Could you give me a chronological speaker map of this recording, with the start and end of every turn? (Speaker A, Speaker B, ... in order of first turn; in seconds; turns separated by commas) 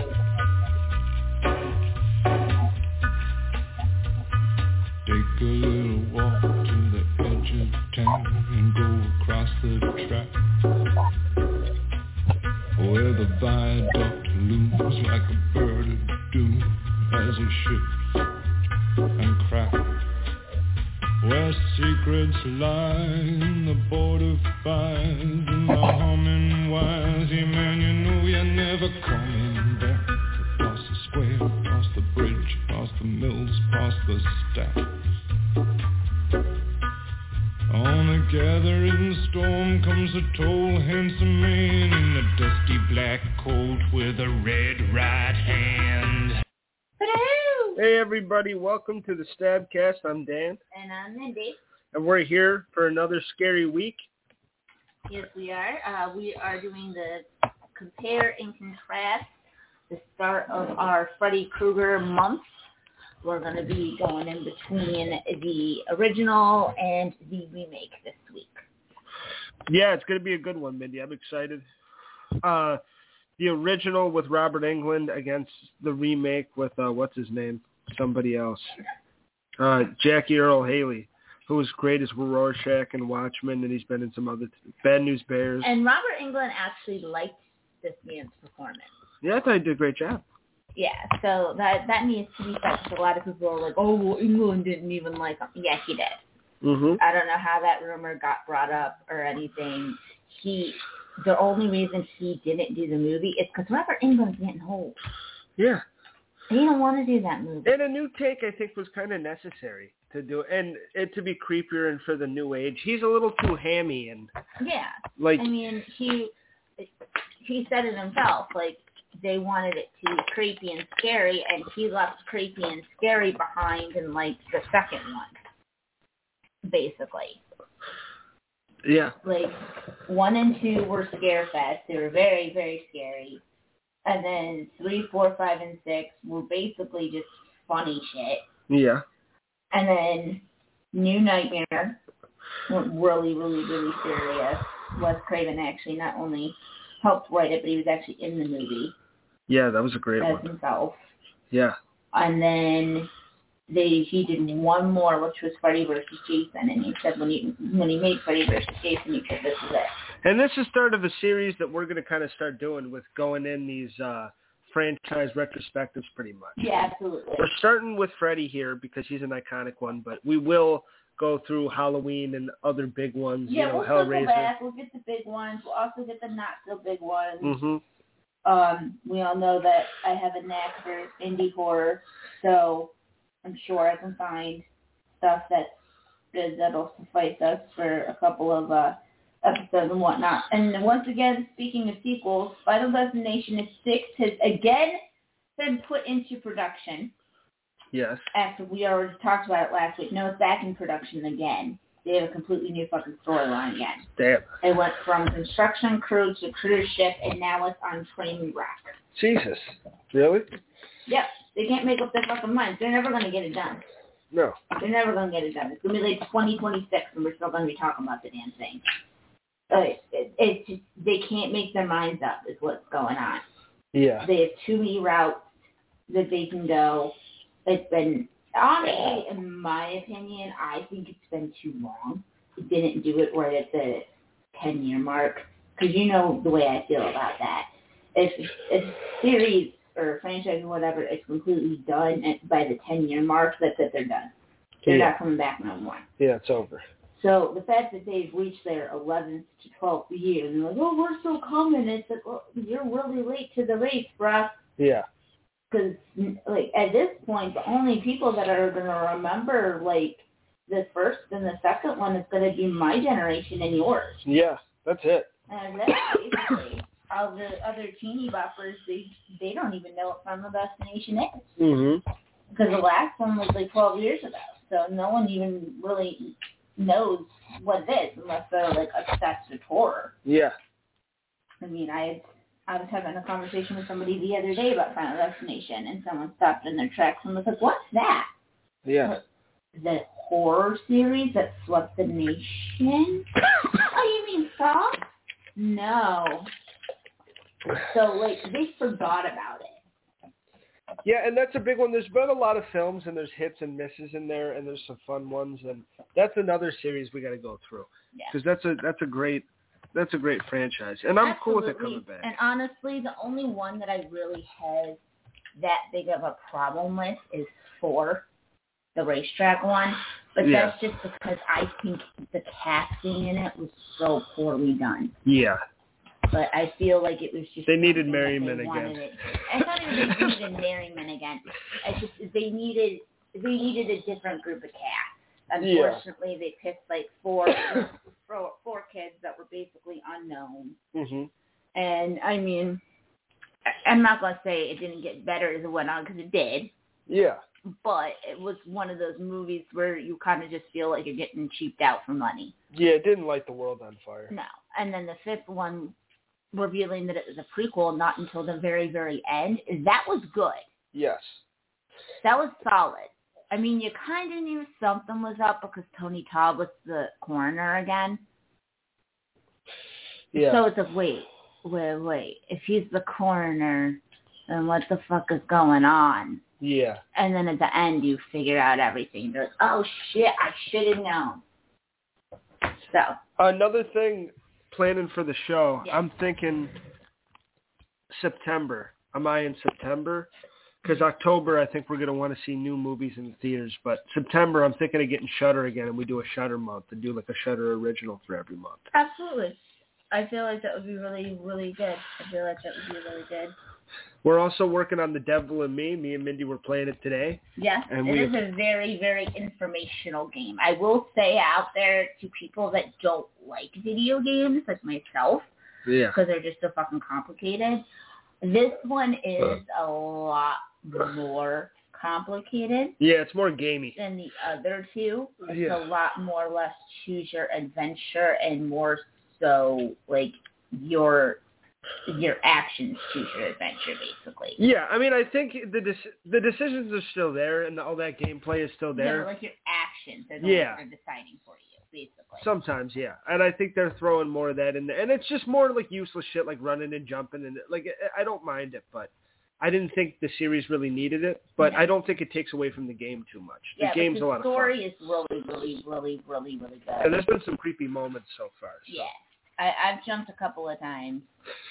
Speaker A: 5.0-10.3, Speaker A: 12.8-18.0, Speaker A: 19.2-20.0, Speaker A: 21.2-34.9, Speaker A: 37.7-46.4, Speaker B: 47.0-47.8, Speaker C: 47.8-50.6, Speaker B: 50.7-51.6, Speaker C: 51.9-54.0, Speaker B: 55.1-59.4, Speaker B: 59.9-62.6, Speaker B: 63.2-68.6, Speaker C: 69.7-71.7, Speaker C: 72.4-72.8, Speaker C: 73.4-78.8, Speaker C: 79.6-85.7, Speaker B: 85.6-88.9, Speaker C: 89.2-90.2, Speaker B: 90.8-96.2, Speaker C: 96.6-97.0, Speaker B: 97.0-105.0, Speaker C: 105.6-105.8, Speaker B: 106.5-107.8, Speaker C: 107.7-114.3, Speaker B: 114.6-116.9, Speaker C: 115.2-115.5, Speaker B: 117.4-125.3, Speaker B: 126.7-127.4, Speaker C: 128.8-129.2, Speaker B: 129.2-133.4, Speaker B: 134.1-138.4, Speaker C: 138.7-139.0, Speaker B: 139.7-142.0, Speaker B: 142.7-148.9, Speaker C: 149.5-150.5, Speaker B: 150.2-151.0, Speaker C: 151.5-151.8, Speaker B: 152.1-153.1, Speaker B: 153.7-159.9, Speaker C: 160.2-166.6, Speaker B: 166.6-167.5, Speaker C: 167.4-174.5, Speaker B: 173.5-177.6, Speaker C: 177.4-177.8, Speaker B: 178.4-182.9, Speaker B: 183.4-184.7, Speaker B: 185.2-185.8, Speaker B: 186.3-195.0, Speaker B: 195.6-197.1, Speaker C: 197.9-198.3, Speaker B: 198.3-204.1, Speaker C: 204.2-204.5, Speaker B: 204.6-208.9, Speaker C: 209.1-210.5, Speaker B: 211.1-213.8, Speaker C: 214.3-214.6, Speaker B: 214.8-218.8, Speaker B: 219.7-223.4, Speaker C: 223.9-224.3, Speaker B: 224.2-225.5, Speaker B: 226.1-227.2, Speaker B: 227.7-244.3, Speaker C: 244.8-245.2, Speaker B: 244.9-246.1, Speaker C: 246.2-246.8, Speaker B: 247.2-254.6, Speaker C: 254.8-255.1, Speaker B: 255.7-264.2, Speaker C: 264.2-265.3, Speaker B: 265.5-271.6, Speaker C: 271.6-272.0, Speaker B: 272.5-280.1, Speaker C: 280.3-280.6, Speaker B: 281.6-288.3, Speaker C: 288.9-289.1, Speaker B: 289.7-293.3, Speaker B: 293.9-295.0, Speaker B: 295.6-296.5, Speaker B: 297.9-299.8, Speaker C: 301.1-312.3, Speaker B: 311.2-315.0, Speaker B: 315.6-318.2, Speaker B: 318.9-325.1, Speaker C: 320.4-320.8, Speaker C: 325.2-325.6, Speaker B: 326.3-340.8, Speaker C: 327.7-329.0, Speaker C: 329.9-330.3, Speaker C: 335.6-336.0, Speaker C: 340.9-341.3, Speaker B: 341.8-342.8, Speaker B: 343.7-346.7, Speaker C: 347.1-347.4, Speaker B: 347.7-352.6, Speaker C: 352.7-354.3, Speaker B: 354.3-355.9, Speaker B: 356.5-360.6, Speaker C: 360.9-361.4, Speaker B: 362.2-368.2, Speaker C: 370.3-370.6, Speaker B: 370.3-376.4, Speaker C: 376.6-377.0, Speaker B: 377.1-381.4, Speaker B: 382.8-383.2, Speaker C: 383.4-386.7, Speaker C: 388.1-390.3, Speaker C: 390.8-398.9, Speaker B: 398.9-399.6, Speaker B: 400.1-403.6, Speaker C: 404.2-408.4, Speaker B: 407.6-415.5, Speaker C: 415.9-416.2, Speaker B: 416.1-417.9, Speaker B: 418.4-423.0, Speaker C: 423.0-424.0, Speaker B: 424.0-431.4, Speaker C: 425.5-425.8, Speaker B: 432.1-434.6, Speaker C: 434.6-439.3, Speaker B: 438.9-442.5, Speaker C: 440.4-440.8, Speaker C: 442.4-454.7, Speaker B: 453.8-457.2, Speaker C: 457.0-459.1, Speaker B: 458.9-461.3